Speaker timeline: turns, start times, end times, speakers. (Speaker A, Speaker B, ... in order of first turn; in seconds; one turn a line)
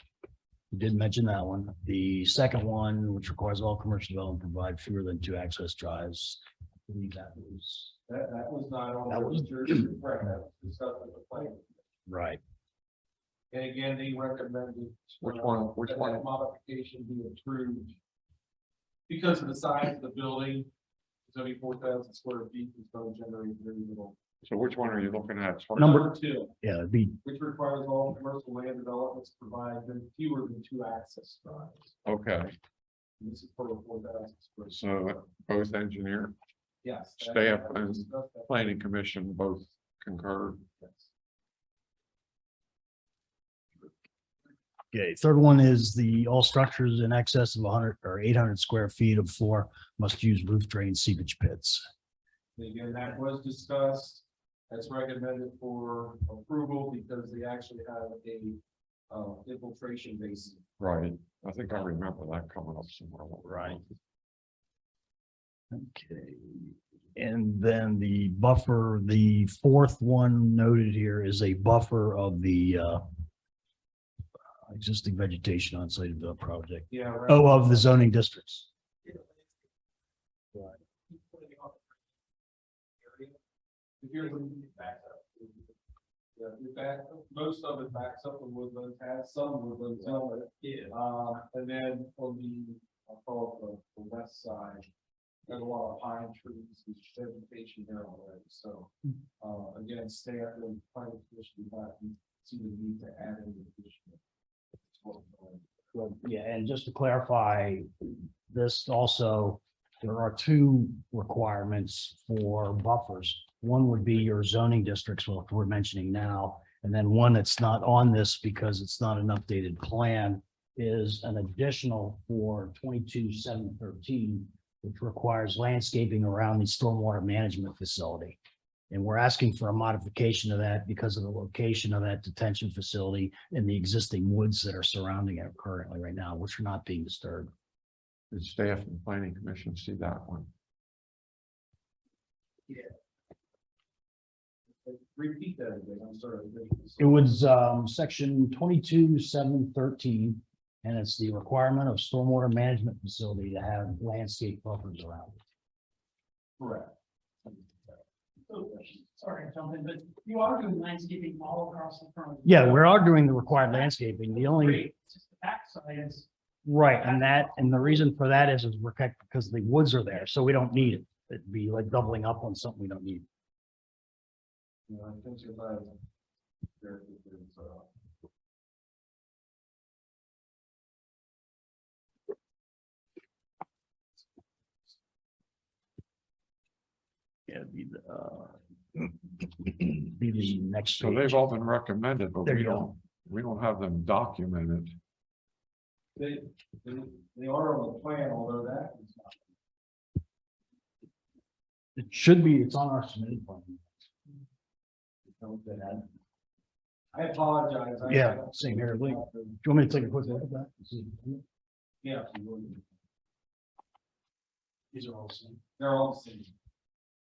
Speaker A: 0.7-7.9
Speaker B: 8.1-11.8
Speaker A: 9.1-9.9
Speaker A: 12.1-12.4
Speaker B: 13.5-17.9
Speaker C: 15.2-16.2
Speaker B: 19.1-20.7
Speaker B: 21.2-24.2
Speaker C: 24.4-26.0
Speaker A: 25.8-26.1
Speaker B: 25.8-26.5
Speaker A: 26.6-27.2
Speaker B: 27.2-31.9
Speaker C: 32.0-32.5
Speaker B: 33.2-34.8
Speaker C: 34.7-36.3
Speaker B: 36.8-38.8
Speaker C: 37.2-40.6
Speaker B: 40.8-41.1
Speaker A: 44.9-51.8
Speaker B: 52.5-58.6
Speaker B: 59.1-60.6
Speaker C: 60.8-63.9
Speaker A: 63.5-63.8
Speaker A: 65.7-73.0
Speaker A: 74.7-78.7
Speaker B: 76.9-77.6
Speaker B: 81.1-81.7
Speaker B: 83.0-83.3
Speaker B: 84.0-85.7
Speaker B: 86.3-94.9
Speaker B: 95.5-104.2
Speaker B: 104.9-105.7
Speaker A: 105.9-128.4
Speaker A: 128.9-137.5
Speaker C: 138.3-140.5
Speaker B: 144.7-147.2
Speaker A: 147.0-155.4
Speaker B: 156.6-156.9
Speaker D: 158.5-162.8
Speaker A: 162.4-164.9
Speaker D: 164.3-166.3
Speaker A: 166.6-173.2
Speaker B: 174.9-175.9
Speaker B: 176.8-177.9
Speaker A: 187.5-191.4
Speaker C: 191.0-194.9
Speaker A: 192.4-192.9
Speaker B: 196.2-199.4
Speaker A: 201.9-203.8
Speaker A: 205.4-206.0
Speaker B: 207.1-209.6
Speaker A: 208.1-211.4
Speaker B: 212.0-212.8
Speaker A: 214.9-215.6
Speaker B: 215.8-216.5